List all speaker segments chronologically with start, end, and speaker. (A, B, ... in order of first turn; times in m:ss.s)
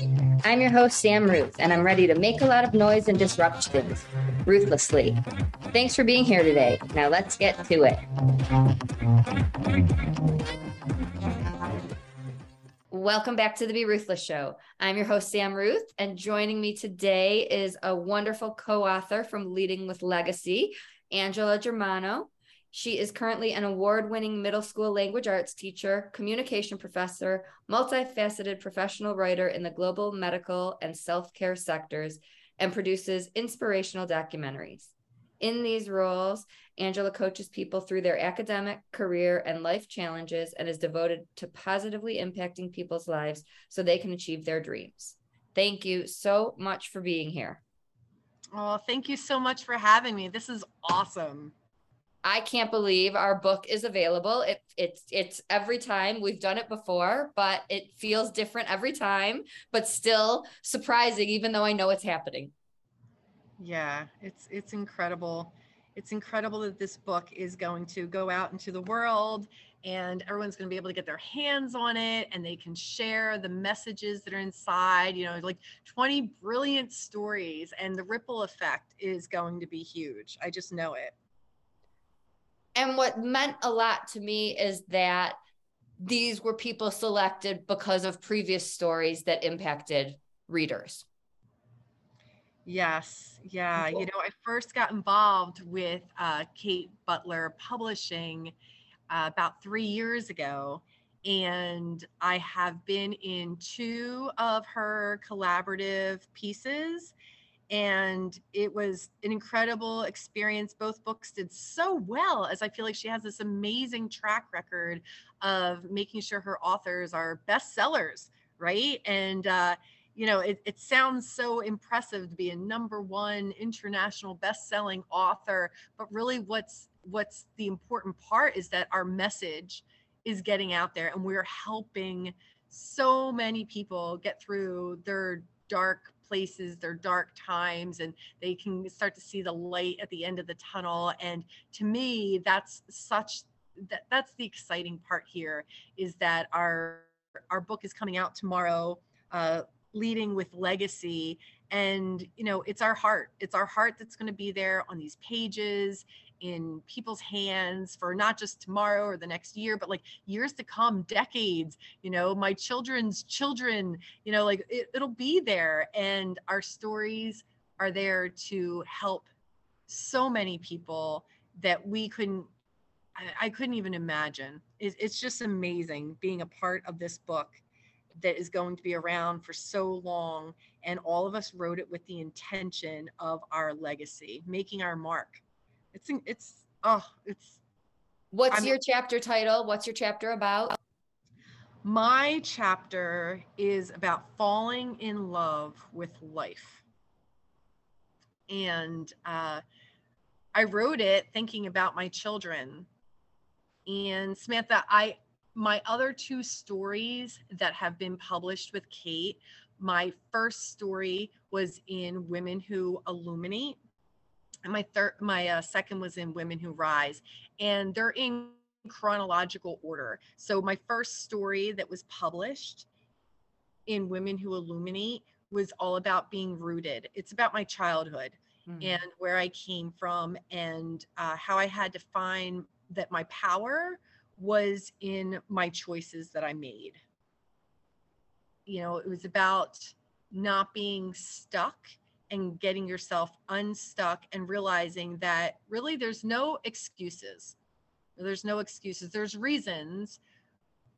0:00.4-0:05.2 A
0:05.7-0:08.0 A
0:12.9-0:47.6 A
0:48.5-0:51.5 B
0:52.2-1:02.5 A
1:03.6-1:21.1 B
1:22.7-1:25.4 A
1:26.0-1:31.0 A
1:32.6-1:38.5 B
1:39.1-1:47.1 B
1:47.7-2:49.3 B
2:49.9-2:52.5 B
2:53.2-2:57.6 B
2:58.1-3:07.6 B
3:08.3-3:10.8 A
3:11.8-3:16.8 B
3:18.5-3:19.6 B
3:20.5-3:22.9 B
3:23.8-3:33.8 B
3:34.6-3:42.9 B
3:43.9-3:57.0 B
3:48.7-3:49.0 A
3:58.6-4:07.6 B
4:08.2-4:10.2 B